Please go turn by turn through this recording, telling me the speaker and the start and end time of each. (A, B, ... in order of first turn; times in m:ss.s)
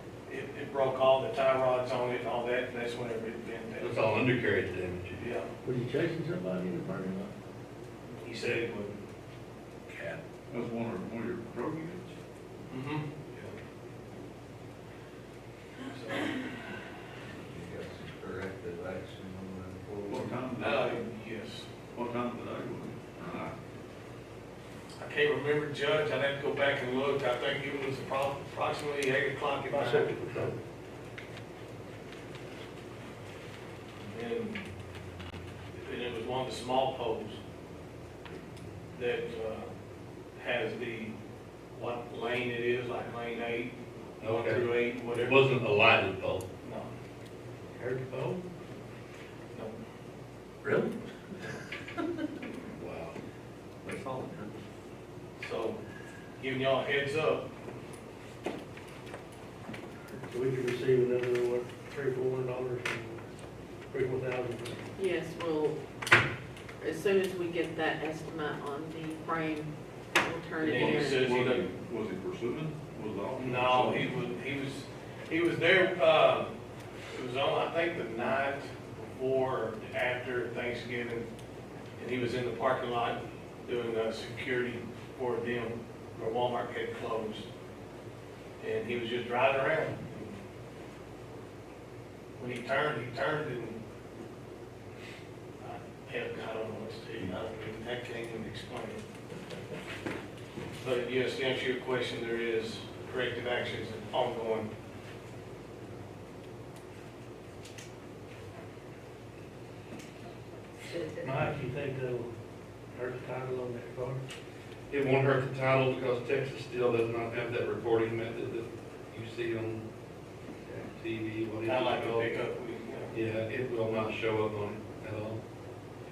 0:00.3-0:04.0 A
0:03.8-0:05.3 B
0:05.2-0:05.5 A
0:05.6-0:07.3 C
0:08.2-0:09.0 A
0:10.5-0:12.2 D
0:12.7-0:13.5 A
0:15.9-0:16.4 A
0:17.4-0:20.3 E
0:20.1-0:21.0 D
0:20.6-0:21.7 A
0:21.9-0:23.6 D
0:25.0-0:30.2 A
0:29.7-0:30.6 C
0:34.1-0:34.6 A
0:35.7-0:37.4 A
0:38.9-0:39.7 A
0:40.4-0:41.1 A
0:41.7-0:45.4 A
0:44.2-0:46.5 B
0:46.6-0:46.9 A
0:47.7-0:48.5 C
0:50.6-0:51.5 F
0:52.9-0:53.1 F
0:53.8-0:54.6 F
0:55.4-0:55.8 A
0:56.4-0:57.5 A
1:00.2-1:03.2 C
1:03.9-1:04.9 C
1:05.0-1:05.8 G
1:06.8-1:11.3 G
1:10.6-1:11.6 A
1:10.6-1:14.2 D
1:13.4-1:16.5 A
1:17.1-1:21.3 A
1:22.0-1:27.5 A
1:28.6-1:30.4 A
1:32.4-1:33.8 A
1:35.6-1:39.0 A
1:40.8-1:44.7 A
1:51.2-1:52.3 C
1:52.9-1:54.2 C
1:54.9-1:59.8 B
2:00.7-2:02.3 B
2:01.7-2:03.1 A
2:03.1-2:05.4 B